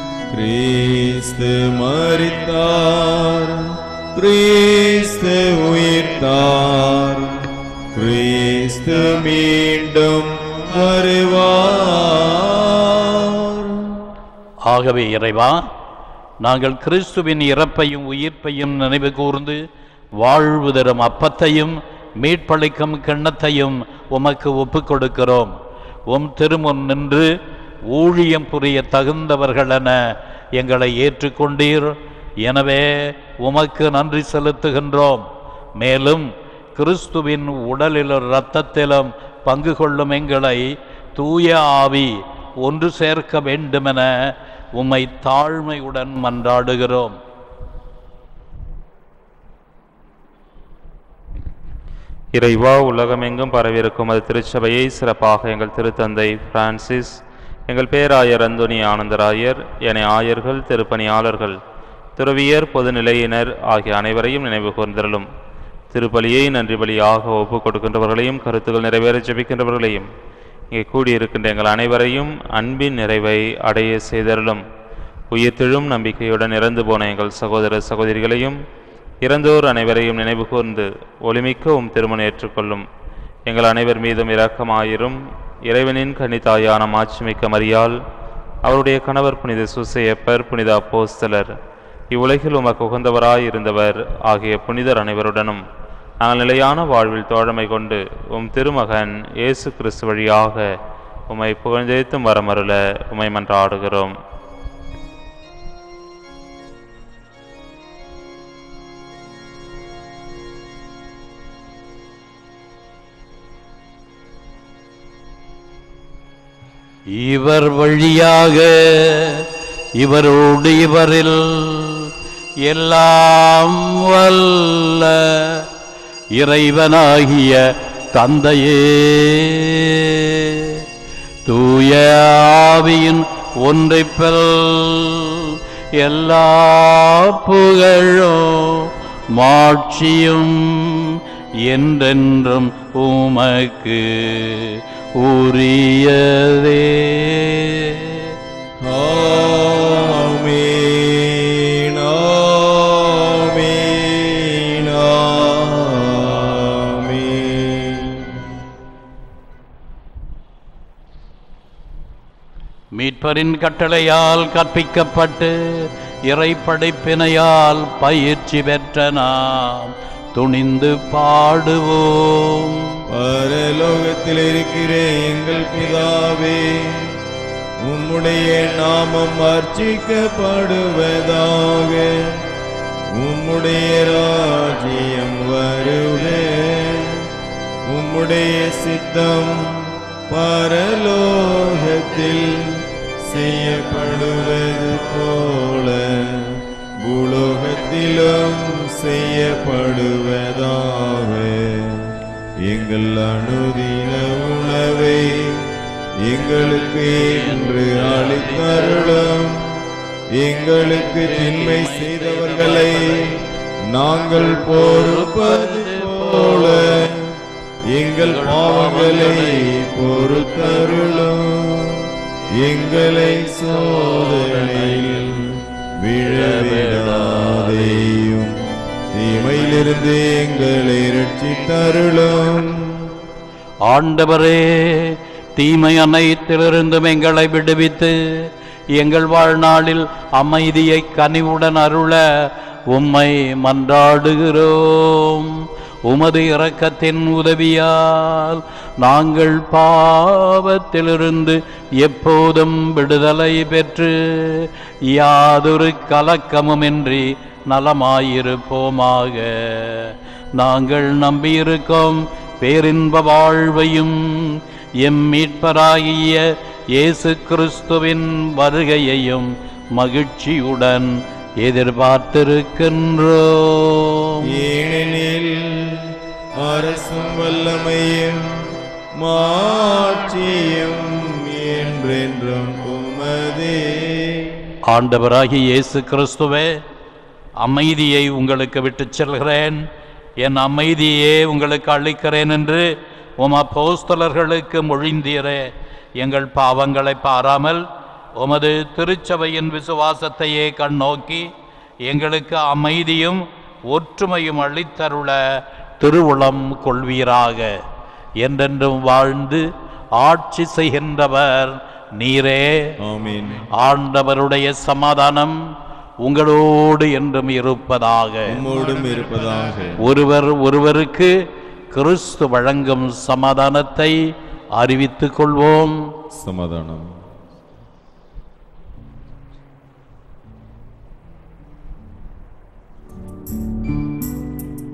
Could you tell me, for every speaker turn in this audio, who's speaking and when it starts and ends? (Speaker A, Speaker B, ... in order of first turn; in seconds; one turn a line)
Speaker A: 0.3-14.1
Speaker B: 14.7-15.7
Speaker B: 16.4-19.6
Speaker B: 20.2-25.5
Speaker B: 26.1-27.3
Speaker B: 27.9-35.2
Speaker B: 35.8-47.2
Speaker C: 52.3-61.6
Speaker C: 62.2-65.3
Speaker C: 65.9-70.1
Speaker C: 70.7-74.6
Speaker C: 75.3-78.6
Speaker C: 79.2-82.8
Speaker C: 83.5-88.0
Speaker C: 88.7-91.5
Speaker C: 92.1-95.6
Speaker C: 96.2-100.8
Speaker C: 101.3-104.2
Speaker B: 117.1-125.7
Speaker B: 126.3-130.8
Speaker B: 131.5-148.3
Speaker A: 148.8-158.5
Speaker B: 162.9-173.0
Speaker A: 173.1-177.2
Speaker A: 177.8-182.4
Speaker A: 183.1-187.3
Speaker A: 187.9-209.8
Speaker B: 207.2-209.3
Speaker A: 210.3-228.6
Speaker B: 211.0-213.4
Speaker B: 214.4-217.2
Speaker B: 218.2-219.7
Speaker B: 223.9-225.2
Speaker B: 226.2-228.1
Speaker A: 229.1-233.2
Speaker B: 233.9-274.5
Speaker A: 274.4-284.7
Speaker B: 284.9-286.8
Speaker B: 287.6-289.8
Speaker B: 290.4-297.9
Speaker B: 298.4-301.5
Speaker B: 302.0-307.8
Speaker B: 308.4-313.0
Speaker A: 313.0-313.7
Speaker B: 313.7-315.6
Speaker B: 316.2-318.6
Speaker A: 318.5-320.1
Speaker B: 320.0-321.3
Speaker B: 321.9-324.2
Speaker B: 324.8-326.0
Speaker A: 326.4-327.1